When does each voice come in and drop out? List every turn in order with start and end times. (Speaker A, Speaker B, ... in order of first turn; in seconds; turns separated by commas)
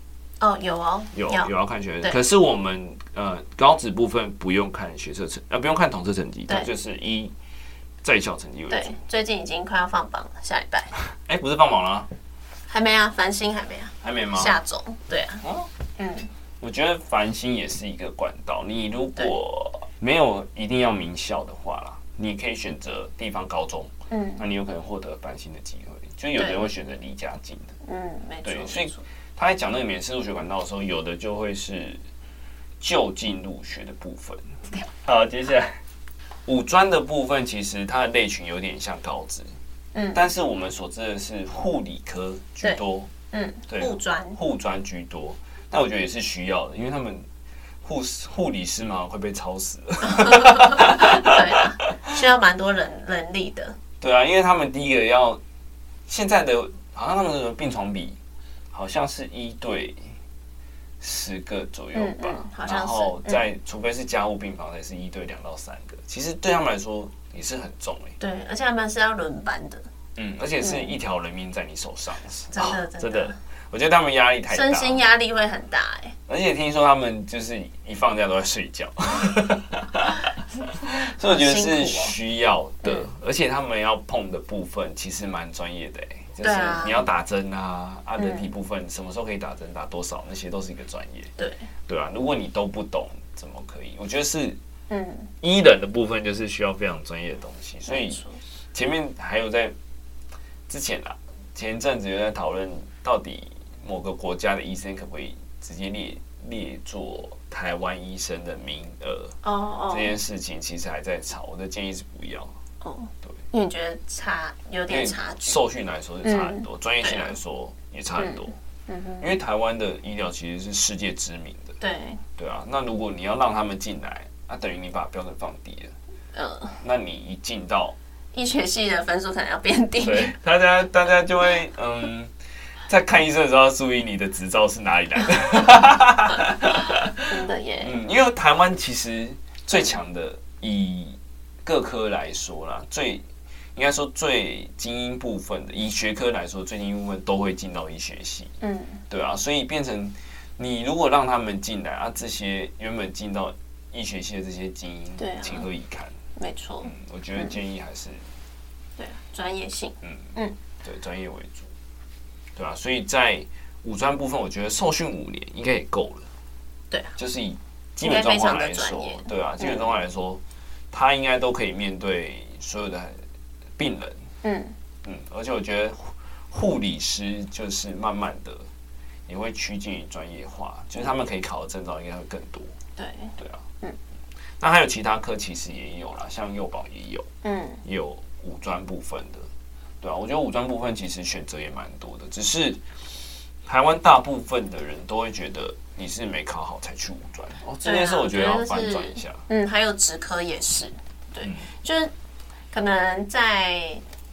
Speaker A: 0.4-1.5, Speaker B: 1.1-7.3, Speaker B: 8.0-8.9, Speaker A: 8.7-10.9, Speaker B: 11.2-12.1, Speaker A: 12.7-15.4, Speaker B: 14.0-14.6, Speaker B: 15.4-15.7, Speaker A: 16.0-16.3, Speaker B: 16.6-27.7, Speaker A: 24.1-24.4, Speaker A: 26.4-26.7, Speaker A: 27.8-29.0, Speaker B: 28.4-32.0, Speaker B: 32.8-34.4, Speaker B: 35.0-35.8, Speaker B: 36.5-39.5, Speaker A: 39.9-40.2, Speaker B: 40.1-43.1, Speaker A: 43.3-44.4, Speaker B: 43.7-47.2, Speaker B: 47.8-52.1, Speaker A: 50.0-53.8, Speaker B: 54.0-55.4, Speaker B: 56.1-58.2, Speaker B: 58.7-60.0, Speaker B: 61.0-68.2, Speaker A: 61.9-63.4, Speaker A: 68.2-69.8, Speaker B: 70.2-75.0, Speaker A: 70.6-70.9, Speaker A: 72.5-73.3, Speaker A: 74.5-76.1, Speaker B: 76.3-91.3, Speaker A: 81.2-82.1, Speaker A: 86.4-87.0, Speaker A: 88.2-88.5, Speaker A: 91.4-91.7, Speaker B: 91.9-94.6, Speaker A: 94.9-95.3, Speaker B: 95.4-98.2, Speaker A: 97.8-98.4, Speaker B: 98.7-99.7, Speaker B: 100.7-109.3, Speaker A: 109.4-110.1, Speaker B: 109.9-112.5, Speaker A: 112.8-115.6, Speaker B: 114.9-118.5, Speaker A: 116.2-117.3, Speaker A: 118.2-119.3, Speaker B: 119.2-121.8, Speaker A: 121.8-122.2, Speaker B: 122.4-125.9, Speaker A: 126.3-126.8, Speaker B: 126.8-128.0, Speaker A: 128.3-130.3, Speaker B: 130.0-132.3, Speaker B: 132.9-137.3, Speaker A: 137.2-137.9, Speaker B: 137.8-143.2, Speaker B: 143.8-148.5, Speaker A: 148.6-149.0, Speaker B: 149.1-156.1, Speaker A: 155.2-155.7, Speaker A: 156.4-157.5, Speaker B: 156.8-158.2, Speaker A: 159.0-160.5, Speaker B: 160.0-160.3, Speaker B: 160.8-161.7, Speaker B: 162.6-166.3, Speaker B: 167.2-173.2, Speaker A: 168.0-169.9, Speaker B: 173.8-174.2, Speaker A: 174.4-174.7, Speaker B: 175.0-178.6, Speaker B: 179.3-182.7, Speaker A: 183.0-184.0, Speaker B: 184.6-187.3, Speaker A: 187.4-187.8, Speaker B: 187.8-189.5, Speaker B: 190.0-192.8, Speaker B: 193.7-199.4, Speaker A: 197.8-202.1, Speaker A: 202.7-204.0